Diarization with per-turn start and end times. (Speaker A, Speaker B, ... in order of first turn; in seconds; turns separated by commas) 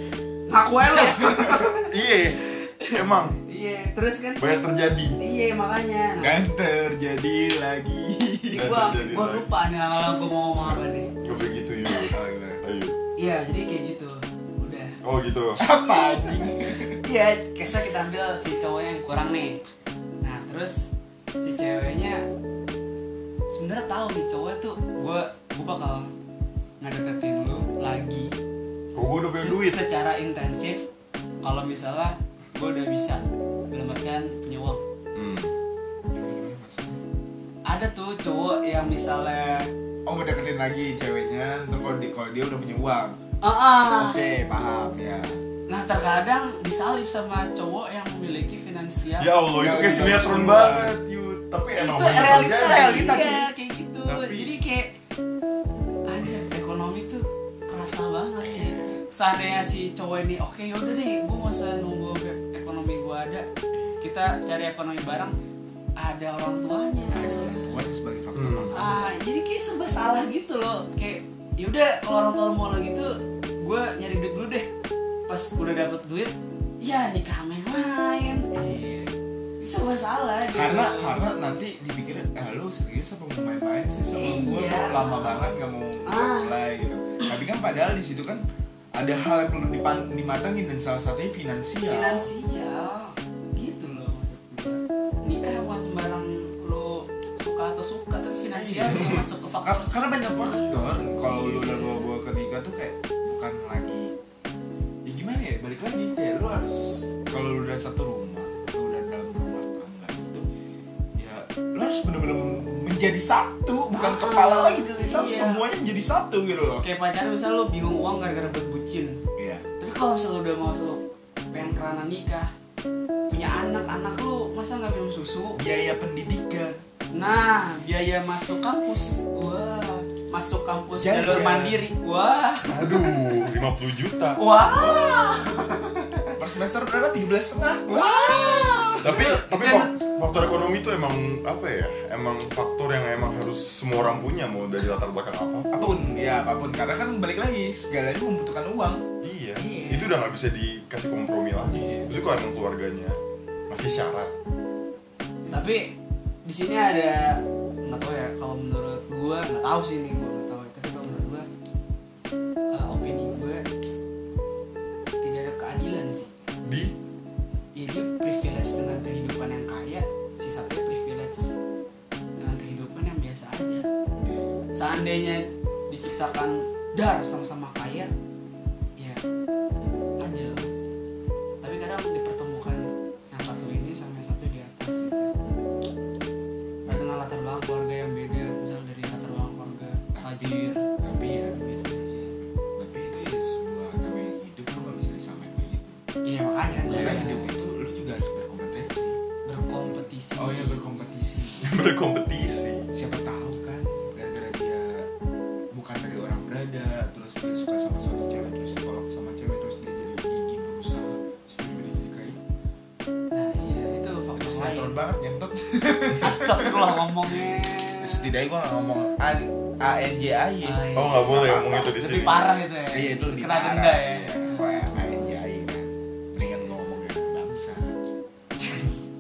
Speaker A: 0.5-1.9, Speaker B: 0.8-1.6, Speaker C: 1.5-3.4, Speaker A: 2.4-4.5, Speaker C: 4.4-5.2, Speaker A: 5.2-6.4, Speaker B: 6.2-8.8, Speaker C: 8.5-9.5, Speaker A: 8.5-11.2, Speaker C: 11.2-13.0, Speaker B: 12.1-12.6, Speaker A: 13.2-15.0, Speaker C: 15.0-15.6, Speaker B: 15.6-17.0, Speaker A: 15.6-19.6, Speaker A: 20.2-20.9, Speaker A: 21.4-22.2, Speaker A: 23.5-26.1, Speaker A: 26.8-28.3, Speaker C: 28.9-29.8, Speaker A: 29.4-30.9, Speaker A: 31.4-34.8, Speaker C: 35.2-35.5, Speaker B: 36.1-37.0, Speaker A: 37.7-39.7, Speaker B: 40.1-43.2, Speaker A: 43.4-44.2, Speaker B: 43.9-45.4, Speaker A: 45.7-50.2, Speaker C: 49.2-53.3, Speaker B: 49.5-51.0, Speaker A: 51.8-54.9, Speaker B: 52.7-53.4, Speaker C: 54.1-54.5, Speaker A: 56.1-63.5, Speaker B: 58.4-59.0, Speaker A: 64.0-65.3, Speaker A: 66.0-67.7, Speaker B: 67.1-69.1, Speaker C: 68.3-68.8, Speaker A: 68.7-74.7, Speaker A: 75.3-78.5, Speaker B: 78.5-79.1, Speaker A: 79.6-81.3, Speaker B: 80.5-88.4, Speaker A: 84.1-86.5, Speaker B: 89.0-92.3, Speaker A: 91.9-100.5, Speaker B: 98.5-104.1, Speaker A: 101.2-102.1, Speaker B: 105.0-110.5, Speaker B: 111.2-116.9, Speaker A: 113.9-115.7, Speaker A: 116.8-119.2, Speaker B: 119.4-119.7, Speaker A: 119.8-122.5, Speaker A: 123.3-125.6, Speaker B: 125.6-126.8, Speaker A: 127.1-133.2, Speaker B: 131.0-131.8, Speaker C: 132.7-135.2, Speaker A: 134.4-135.9, Speaker B: 136.3-139.2, Speaker A: 138.0-140.0, Speaker C: 139.0-145.9, Speaker B: 145.7-149.0, Speaker C: 149.2-153.2, Speaker A: 149.6-150.2, Speaker B: 151.7-152.1, Speaker C: 153.7-154.3, Speaker A: 155.5-161.5, Speaker A: 162.7-163.7, Speaker A: 165.2-166.3, Speaker C: 166.7-166.9, Speaker A: 167.8-171.5, Speaker A: 172.4-173.9, Speaker B: 174.2-174.5, Speaker A: 174.8-178.1, Speaker A: 179.0-179.2, Speaker A: 180.2-180.7, Speaker A: 181.6-185.3, Speaker A: 186.9-190.8, Speaker B: 190.1-192.0, Speaker A: 191.6-192.3, Speaker B: 192.8-196.0, Speaker A: 196.2-197.5, Speaker B: 196.8-199.2, Speaker C: 196.9-197.2, Speaker A: 199.5-200.8, Speaker B: 200.4-201.7, Speaker C: 201.6-202.9, Speaker B: 202.9-205.1, Speaker B: 205.7-212.4, Speaker A: 213.3-215.0, Speaker B: 214.4-220.9, Speaker A: 216.2-218.3, Speaker A: 220.6-224.9, Speaker C: 220.9-222.4, Speaker B: 222.9-227.9